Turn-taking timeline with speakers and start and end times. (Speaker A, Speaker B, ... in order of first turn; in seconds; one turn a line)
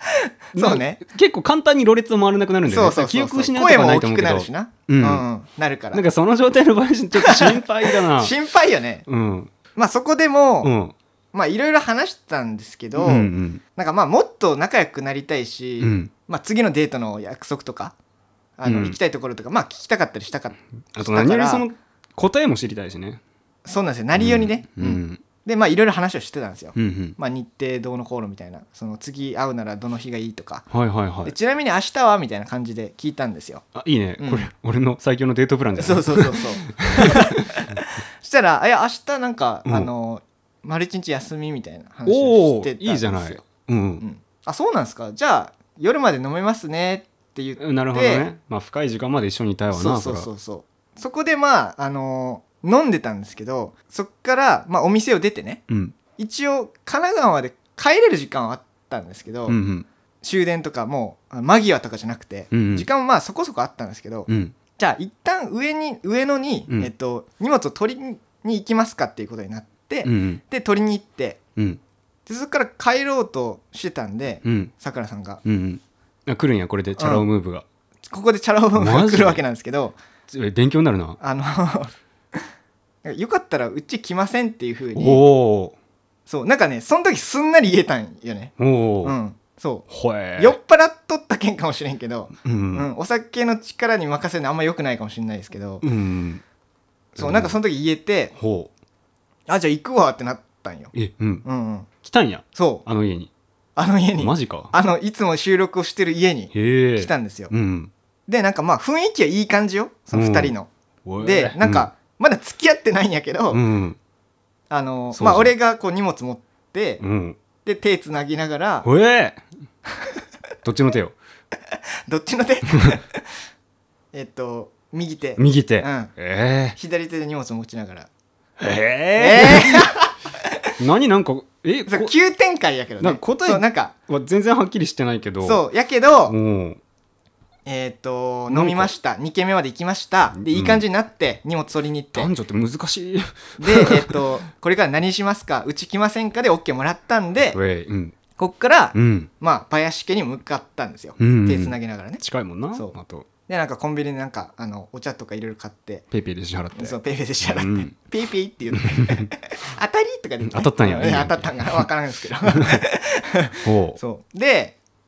Speaker A: 0.5-1.0
Speaker B: 0.5-5.2
Speaker A: 2.7-6.0
Speaker B: 5.9-8.4
Speaker A: 7.2-9.1
Speaker B: 9.1-9.5
Speaker A: 9.8-10.7
Speaker B: 10.6-10.9
Speaker A: 11.3-17.9
Speaker B: 13.0-13.6
Speaker B: 15.8-16.1
Speaker A: 18.6-21.7
Speaker B: 18.6-19.0
Speaker B: 20.9-23.2
Speaker A: 23.6-30.7
Speaker B: 24.2-25.2
Speaker B: 26.8-27.2
Speaker B: 30.7-31.3
Speaker A: 31.2-33.6
Speaker B: 33.8-37.8
Speaker A: 34.2-34.5
Speaker A: 35.8-43.5
Speaker B: 39.7-39.9
Speaker B: 42.1-44.0
Speaker A: 44.0-48.3
Speaker B: 47.6-50.3
Speaker A: 49.7-55.6
Speaker B: 55.7-56.0
Speaker A: 56.2-59.6
Speaker B: 59.5-59.9
Speaker A: 60.2-71.4
Speaker B: 62.5-62.9
Speaker B: 64.3-64.5
Speaker B: 70.0-70.4
Speaker B: 71.6-71.8
Speaker A: 72.3-75.4
Speaker B: 74.4-74.7
Speaker B: 75.4-77.7
Speaker A: 77.0-77.3
Speaker A: 78.1-80.0
Speaker B: 78.8-79.4
Speaker B: 80.3-81.2
Speaker A: 81.2-82.4
Speaker A: 83.0-85.2
Speaker B: 84.9-85.8
Speaker A: 86.3-95.8
Speaker B: 88.6-89.2
Speaker B: 89.9-90.6
Speaker B: 92.4-92.9
Speaker B: 95.8-96.4
Speaker A: 97.2-98.3
Speaker B: 97.2-97.6
Speaker B: 98.4-98.7
Speaker A: 99.5-101.9
Speaker B: 100.9-101.5
Speaker B: 102.0-103.3
Speaker A: 102.5-102.8
Speaker A: 103.8-107.5
Speaker B: 104.2-104.7
Speaker B: 106.5-107.9
Speaker A: 108.3-113.6
Speaker B: 110.1-111.9
Speaker B: 113.5-114.0
Speaker A: 114.7-117.0
Speaker B: 115.1-115.5
Speaker B: 117.0-117.4
Speaker A: 117.6-118.9
Speaker B: 118.8-119.4
Speaker B: 120.6-121.2
Speaker A: 122.1-123.2
Speaker A: 124.1-126.1
Speaker B: 125.4-126.8
Speaker A: 126.8-128.1
Speaker B: 128.6-129.9
Speaker A: 129.2-130.1
Speaker B: 130.8-132.1
Speaker A: 131.9-133.9
Speaker B: 133.0-135.6
Speaker A: 135.4-136.4
Speaker B: 136.3-136.8
Speaker A: 137.7-142.3
Speaker B: 138.5-138.9
Speaker B: 140.3-140.8
Speaker B: 142.1-144.2
Speaker A: 143.6-147.6
Speaker B: 147.5-148.2
Speaker A: 148.4-152.2
Speaker B: 148.9-149.3
Speaker B: 151.2-153.3
Speaker A: 153.5-156.1
Speaker B: 156.1-157.9
Speaker A: 156.8-164.8
Speaker B: 158.7-159.3
Speaker B: 160.4-161.9
Speaker B: 162.5-162.8
Speaker B: 163.6-164.0